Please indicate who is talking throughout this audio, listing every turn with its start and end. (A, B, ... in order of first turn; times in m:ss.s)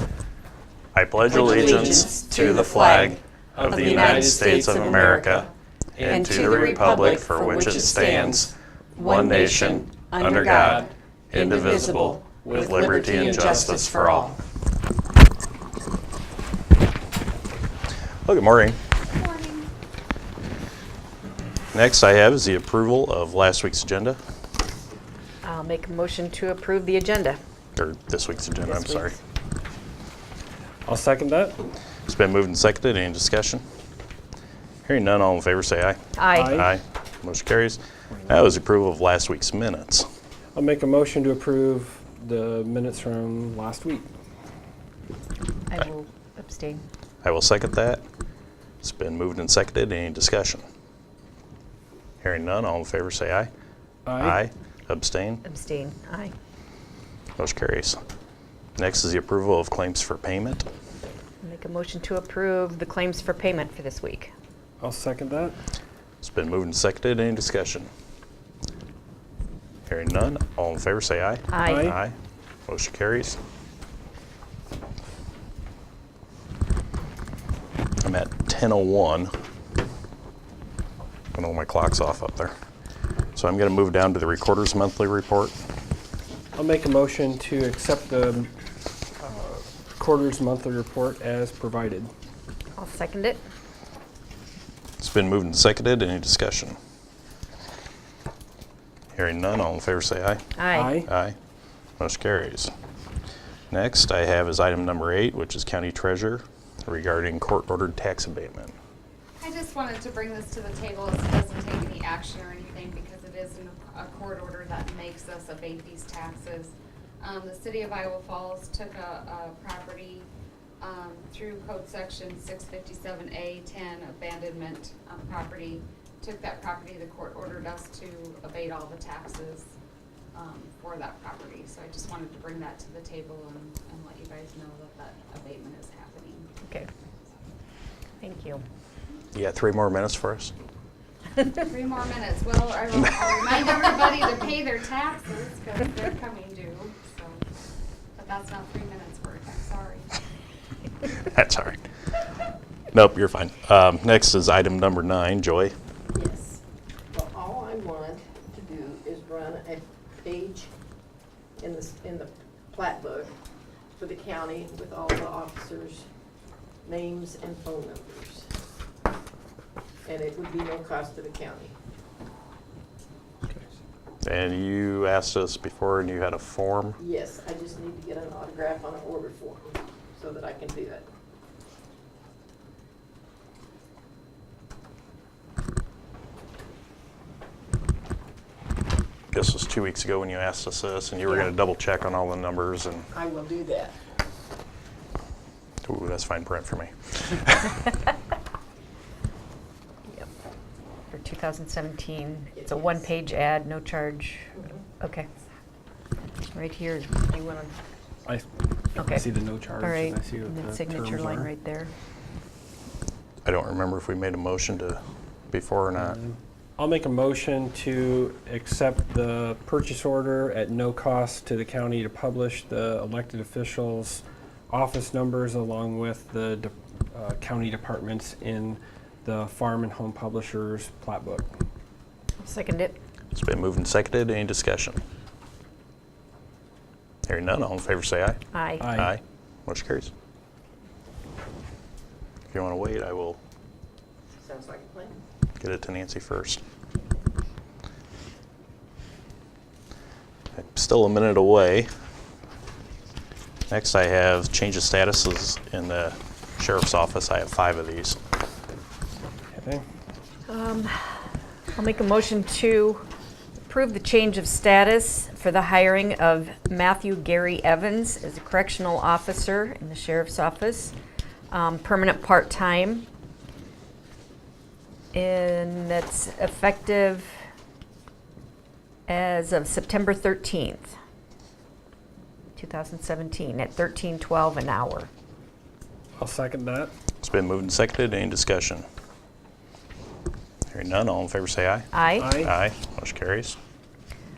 0:00.9-0:14.3 A
0:01.3-0:03.2 B
0:01.3-0:02.1 C
0:03.5-0:05.3 C
0:03.7-0:05.4 B
0:06.0-0:07.0 C
0:06.1-0:08.4 B
0:09.0-0:14.3 B
0:10.2-0:10.9 C
0:11.8-0:13.8 C
0:18.2-0:18.8 A
0:19.1-0:19.7 D
0:21.7-0:24.2 A
0:25.4-0:27.4 B
0:27.8-0:29.2 A
0:28.6-0:29.2 B
0:30.8-0:31.6 C
0:32.0-0:33.6 A
0:34.8-0:40.1 A
0:36.2-0:36.6 B
0:36.3-0:36.7 C
0:40.5-0:44.1 C
0:45.7-0:46.8 B
0:47.2-0:48.0 A
0:48.8-0:50.6 A
0:52.2-0:53.5 A
0:54.0-0:54.4 C
0:54.2-0:55.4 A
0:55.4-0:56.3 B
0:57.4-0:58.0 A
0:58.8-1:00.6 A
1:01.4-1:04.3 B
1:04.8-1:05.6 C
1:06.2-1:07.9 A
1:09.9-1:12.1 A
1:11.5-1:11.9 B
1:11.7-1:11.9 C
1:12.7-1:13.4 A
1:18.0-1:19.3 A
1:21.3-1:22.5 A
1:23.3-1:25.6 A
1:26.5-1:28.5 C
1:29.2-1:32.1 C
1:32.8-1:33.4 B
1:35.0-1:36.8 A
1:39.1-1:41.4 A
1:40.6-1:41.0 B
1:40.7-1:41.1 C
1:42.0-1:42.7 A
1:43.7-1:48.7 A
1:49.4-2:00.3 D
2:00.8-2:09.7 D
2:10.3-2:16.5 D
2:18.2-2:18.6 B
2:19.3-2:20.5 A
2:21.6-2:27.4 D
2:28.2-2:30.1 D
2:31.0-2:31.8 A
2:32.9-2:35.7 A
2:36.1-2:36.6 E
2:37.1-2:40.7 E
2:41.6-2:43.3 E
2:44.0-2:46.1 E
2:46.8-2:48.4 E
2:50.0-2:51.7 E
2:54.2-2:57.0 A
2:57.0-3:01.0 E
3:09.3-3:13.1 A
3:13.1-3:13.9 E
3:15.8-3:17.7 A
3:21.1-3:25.3 B
3:22.5-3:23.0 E
3:26.5-3:27.3 B
3:27.3-3:27.7 E
3:29.0-3:29.2 B
3:29.0-3:31.5 C
3:29.8-3:31.9 B
3:33.4-3:36.2 A
3:36.0-3:51.5 C
3:52.4-3:53.0 B
3:53.3-3:55.0 A
3:57.2-4:00.1 A
3:58.5-3:58.9 B
3:58.8-3:59.1 C
4:02.5-4:03.4 A
4:04.4-4:05.2 E
4:05.6-4:06.6 A
4:10.6-4:11.9 A
4:13.7-4:18.2 A
4:19.5-4:19.8 C
4:20.5-4:21.2 B
4:21.7-4:23.0 B
4:23.7-4:30.9 B
4:31.5-4:33.1 B
4:35.1-4:37.3 B
4:39.1-4:40.9 B
4:42.6-4:45.1 B
4:46.2-4:46.9 C
4:47.2-4:48.8 A
4:50.7-4:53.6 A
4:51.9-4:52.4 B
4:52.2-4:52.5 C